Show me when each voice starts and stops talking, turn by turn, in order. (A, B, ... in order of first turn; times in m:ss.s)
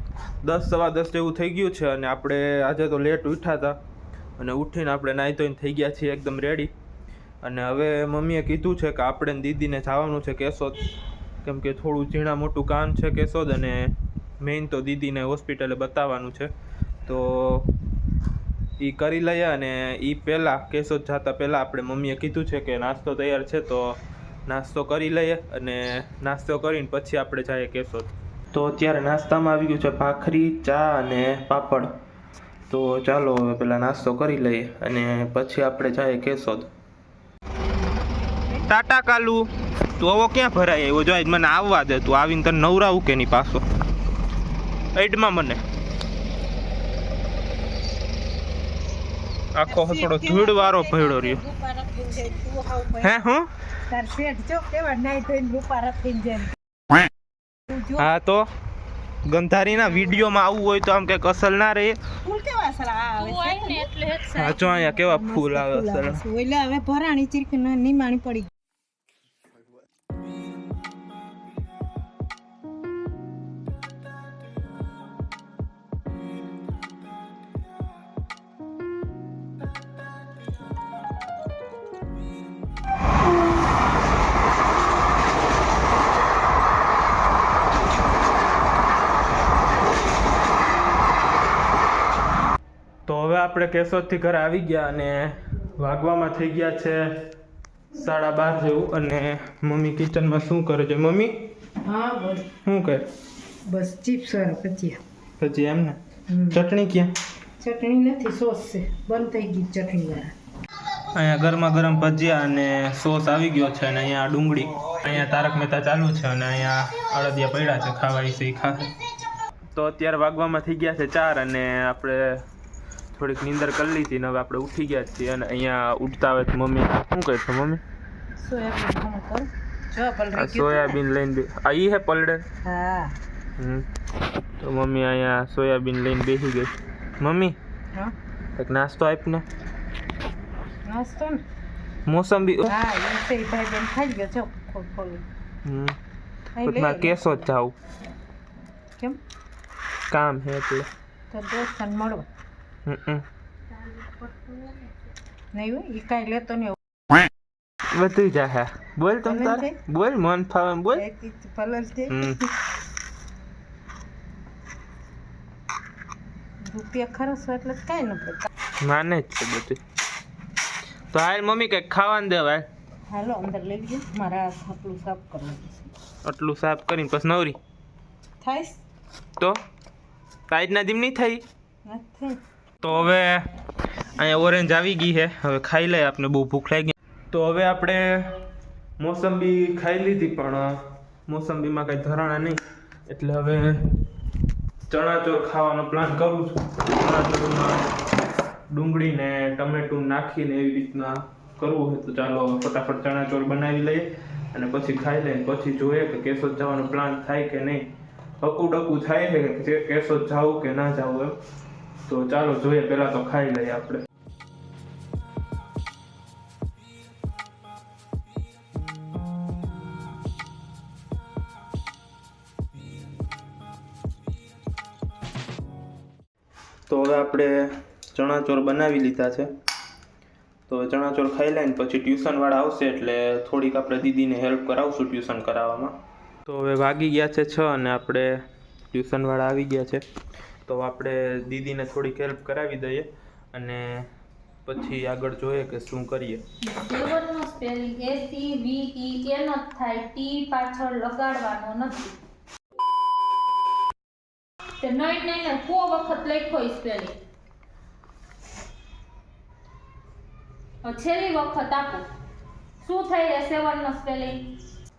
0:00.4-0:03.8 A
0:04.4-0:06.7 A
0:07.4-0:10.8 A
0:11.4-0:16.5 A
0:17.0-0:17.7 A
0:18.8-0:31.9 A
0:32.7-0:36.7 A
0:38.6-0:43.6 A
0:44.9-0:45.6 A
0:49.5-0:51.4 A
0:49.7-0:53.1 B
0:53.0-0:53.5 A
0:53.9-0:56.6 B
0:57.7-0:58.1 B
0:58.0-0:58.5 A
0:59.2-1:02.0 A
1:02.2-1:03.9 B
1:03.2-1:04.6 C
1:04.3-1:06.2 A
1:04.5-1:08.5 B
1:33.1-1:37.1 A
1:37.9-1:41.3 A
1:41.8-1:42.5 B
1:42.6-1:43.0 A
1:43.6-1:45.0 B
1:45.4-1:47.2 A
1:46.3-1:46.6 B
1:47.6-1:50.3 B
1:51.1-1:58.9 A
1:59.7-2:02.4 A
2:03.1-2:07.8 A
2:08.4-2:11.0 B
2:10.3-2:12.4 A
2:12.6-2:13.2 B
2:13.6-2:13.8 A
2:14.6-2:17.6 A
2:18.6-2:19.4 A
2:20.8-2:21.4 B
2:22.0-2:22.7 A
2:22.6-2:25.2 B
2:25.6-2:26.0 A
2:26.5-2:27.4 B
2:26.6-2:27.8 A
2:30.1-2:30.9 A
2:31.3-2:32.3 B
2:32.8-2:33.2 A
2:34.0-2:34.8 B
2:35.5-2:36.8 B
2:37.9-2:41.0 A
2:39.2-2:39.8 B
2:40.9-2:42.4 B
2:42.1-2:42.4 A
2:46.6-2:48.5 B
2:48.8-2:49.8 A
2:51.1-2:52.7 A
2:53.1-2:55.9 B
2:56.2-2:57.6 A
2:58.4-2:58.8 B
3:00.5-3:01.4 A
3:01.8-3:02.4 B
3:02.8-3:03.5 A
3:04.2-3:08.4 A
3:09.0-3:14.0 A
3:14.9-3:17.9 A
3:18.7-3:27.9 A
3:28.4-3:31.4 A
3:32.1-3:34.0 A
3:46.9-3:49.5 A
3:50.7-4:00.0 A
4:00.7-4:04.1 A
4:04.6-4:06.4 A
4:06.6-4:12.2 C
4:14.8-4:17.1 C
4:20.8-4:22.1 C
4:22.8-4:24.5 C